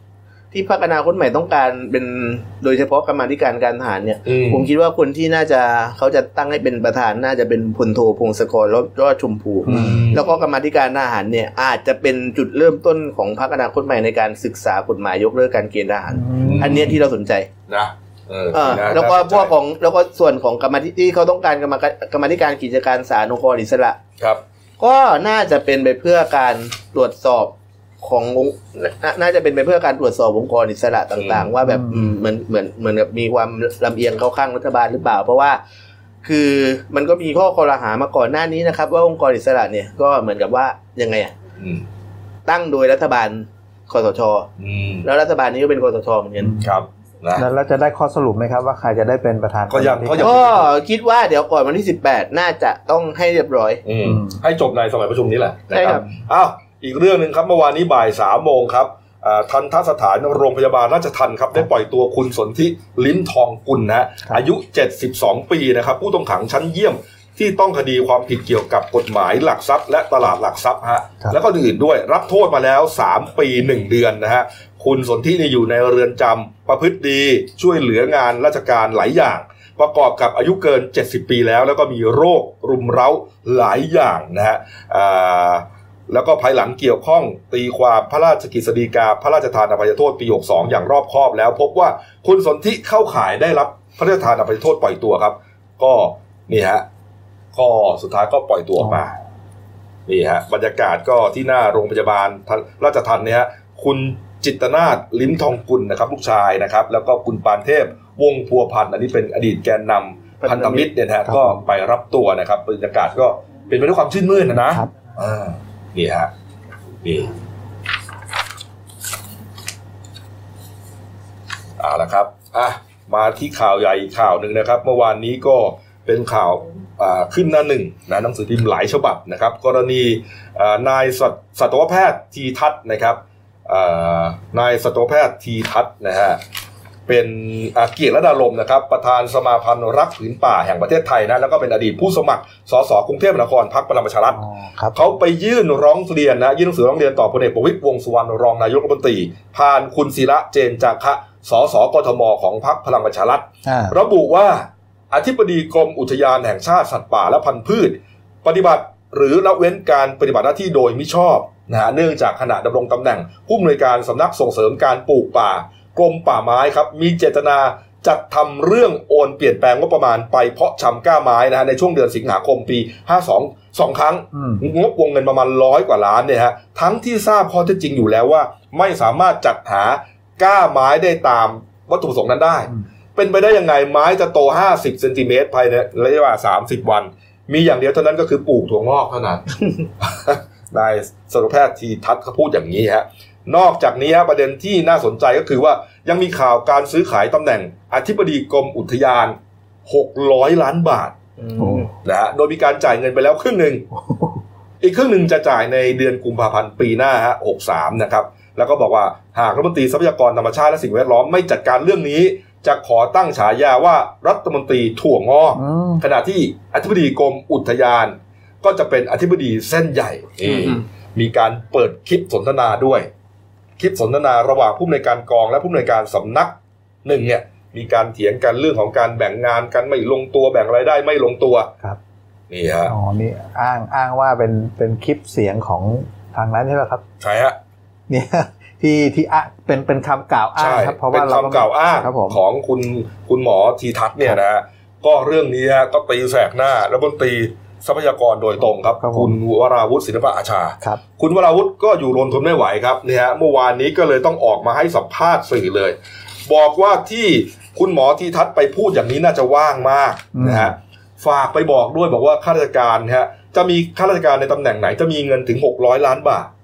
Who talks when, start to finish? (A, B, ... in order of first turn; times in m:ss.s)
0:00.5-0:17.5 A
0:04.2-0:04.6 B
0:09.6-0:10.2 B
0:09.6-0:10.1 C
0:16.1-0:17.0 C
0:16.4-0:16.9 B
0:17.7-0:19.5 B
0:18.5-0:24.0 A
0:24.8-0:35.6 A
0:31.2-0:31.5 B
0:31.6-0:32.0 C
0:36.2-0:41.3 A
0:41.6-0:41.8 B
0:42.4-0:44.5 A
0:44.6-0:45.1 B
0:45.0-0:46.6 A
0:46.4-0:46.8 C
0:46.6-0:47.5 B
0:47.4-0:50.5 C
0:49.7-0:50.7 B
0:50.2-0:53.8 A
0:53.8-1:36.8 B
0:54.0-0:54.4 C
0:55.7-0:56.0 A
1:37.5-1:39.2 B
1:40.1-1:56.3 B
1:50.4-1:50.8 A
1:51.3-1:51.6 C
1:57.0-1:57.3 B
2:01.8-2:16.4 B
2:17.1-2:24.4 B
2:24.3-2:25.1 C
2:24.9-3:21.2 B
2:33.6-2:33.9 C
2:54.3-2:54.6 C
3:21.4-3:21.9 A
3:21.6-3:21.9 C
3:22.0-3:23.8 B
3:23.9-3:24.4 C
3:24.8-3:43.1 B
3:35.5-3:36.0 C
3:40.4-3:40.8 A
3:43.8-3:51.7 B
3:52.5-3:52.9 B
3:52.9-3:57.0 C
3:57.2-3:57.6 B
3:58.1-4:02.4 C
4:00.6-4:26.5 B
4:09.0-4:09.3 C
4:20.3-4:20.7 C